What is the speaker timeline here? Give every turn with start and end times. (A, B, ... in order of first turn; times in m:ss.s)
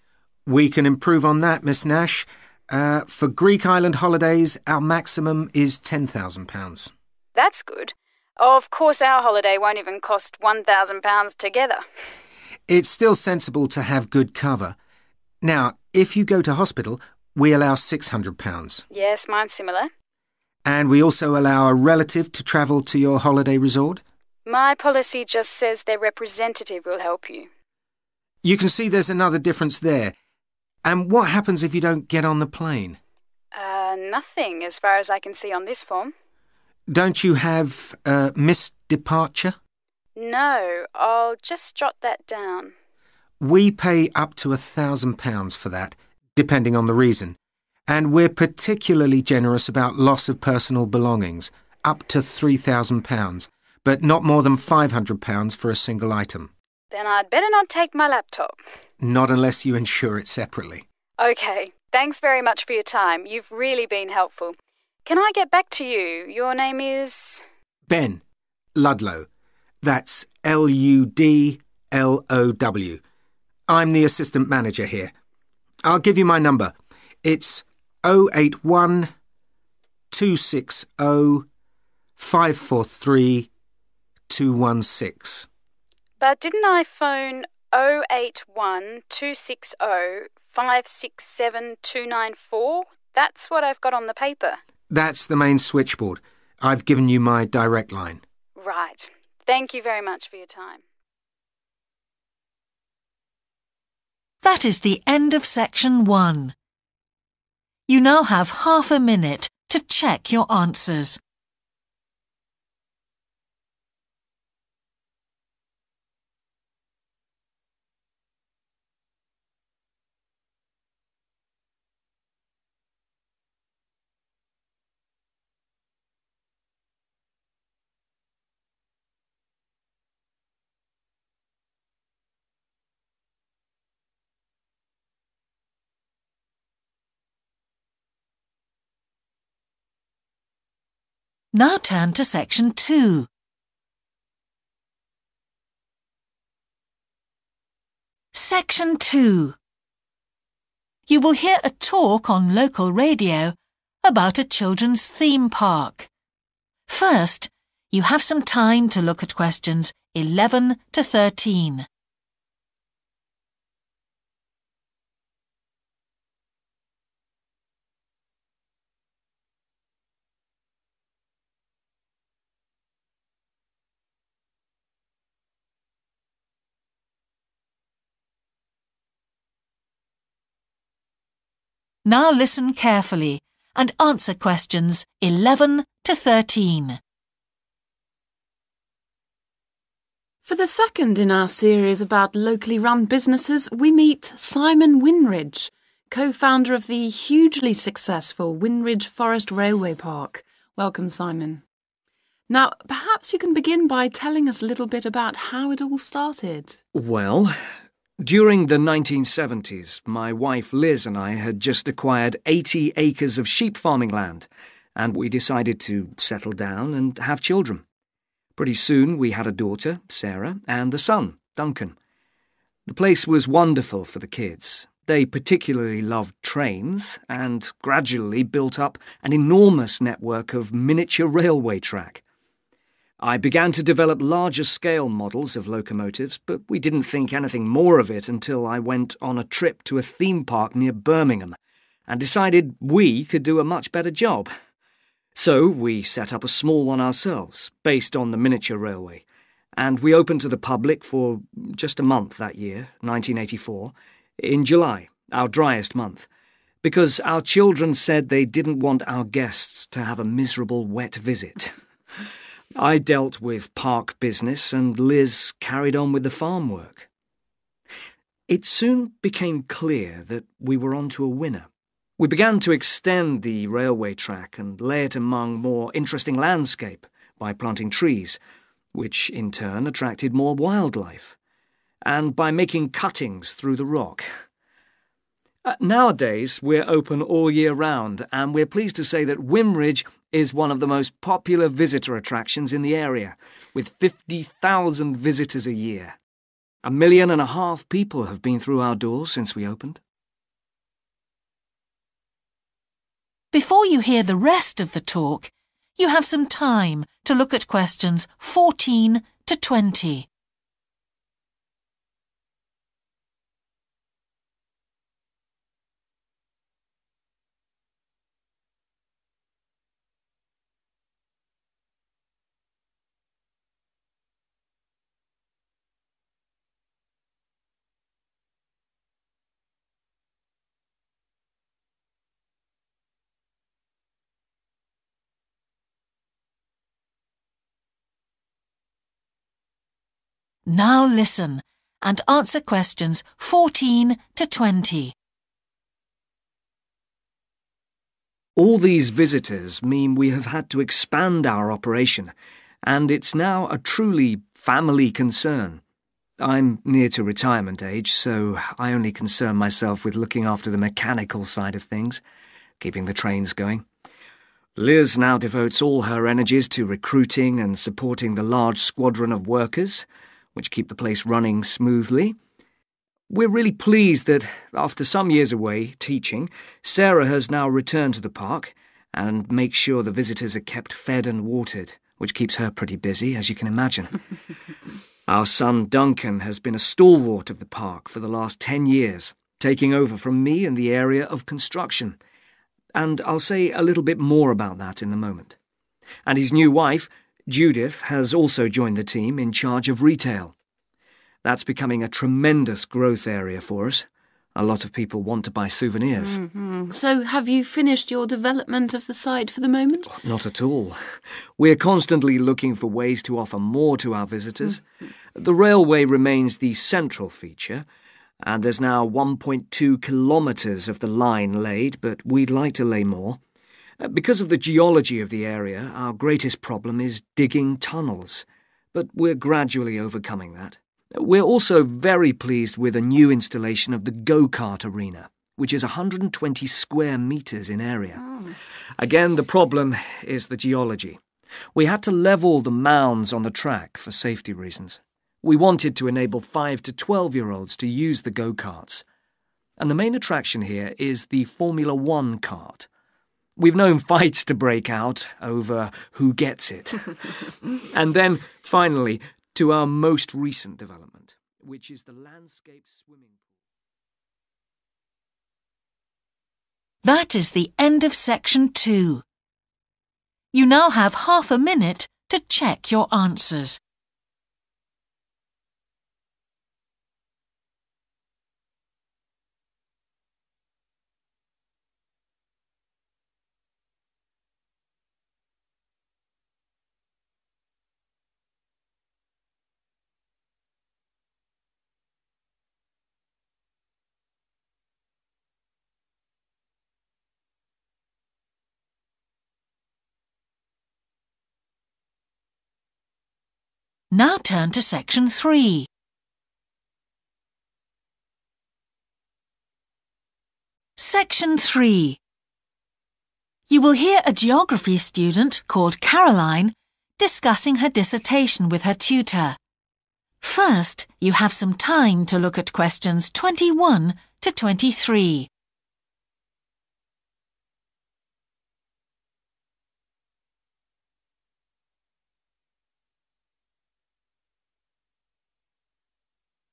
0:00.4-0:06.9 A
0:07.3-0:11.8 B
0:12.7-0:14.8 A
0:15.4-0:18.8 A
0:18.9-0:19.9 B
0:20.6-0:24.0 A
0:24.4-0:27.5 B
0:28.4-0:30.1 A
0:30.8-0:33.0 A
0:33.5-0:36.1 B
0:36.9-0:39.6 A
0:40.2-0:42.7 B
0:43.4-0:47.4 A
0:47.9-0:56.5 A
0:56.9-0:58.6 B
0:59.0-1:00.8 A
1:01.2-1:07.4 B
1:07.9-1:08.2 A
1:08.8-1:09.3 A
1:09.8-1:13.0 A
1:13.7-1:15.1 A
1:15.8-1:19.1 A
1:20.1-1:21.5 A
1:22.2-1:23.5 A
1:24.3-1:25.5 A
1:26.2-1:34.6 B
1:34.9-1:38.2 A
1:38.6-1:40.8 B
1:44.4-1:46.5 C
1:47.9-1:51.2 C
2:21.5-2:23.3 C
2:28.3-2:29.6 C
2:31.1-2:36.1 C
2:36.9-2:41.9 C
3:02.0-3:07.0 C
3:10.4-3:21.6 D
3:22.5-3:26.8 D
3:26.9-3:27.6 E
3:28.2-3:37.8 E
3:38.6-3:41.9 E
3:42.8-3:52.2 E
3:53.2-4:04.5 E
4:05.3-4:16.3 E
4:16.8-4:21.7 E
4:22.8-4:27.1 E
4:28.5-4:31.7 E
4:32.2-4:38.4 E
4:38.9-4:41.4 E
4:42.0-4:44.4 E
4:45.6-4:56.2 E
4:56.8-5:00.0 E
5:03.5-5:10.3 C
5:40.7-5:45.1 C
5:48.6-5:52.3 E
5:52.8-5:55.8 E
5:56.4-6:02.2 E
6:02.8-6:03.8 E
6:04.8-6:12.4 E
6:13.3-6:24.2 E
6:25.3-6:32.2 E
6:32.9-6:35.6 E
6:36.2-6:40.5 E
6:41.4-6:46.4 E
6:46.2-6:50.1 D
6:50.1-6:57.8 E
6:58.4-7:03.4 E
7:04.0-7:18.2 E
7:18.2-7:18.5 D
7:19.0-7:21.2 E
7:21.7-7:29.0 E
7:29.8-7:32.9 E
7:33.6-7:43.4 E
7:47.0-7:49.2 C
7:50.5-7:53.8 C
8:24.1-8:25.9 C
8:31.0-8:32.2 C
8:33.7-8:39.6 C
8:40.4-8:45.5 C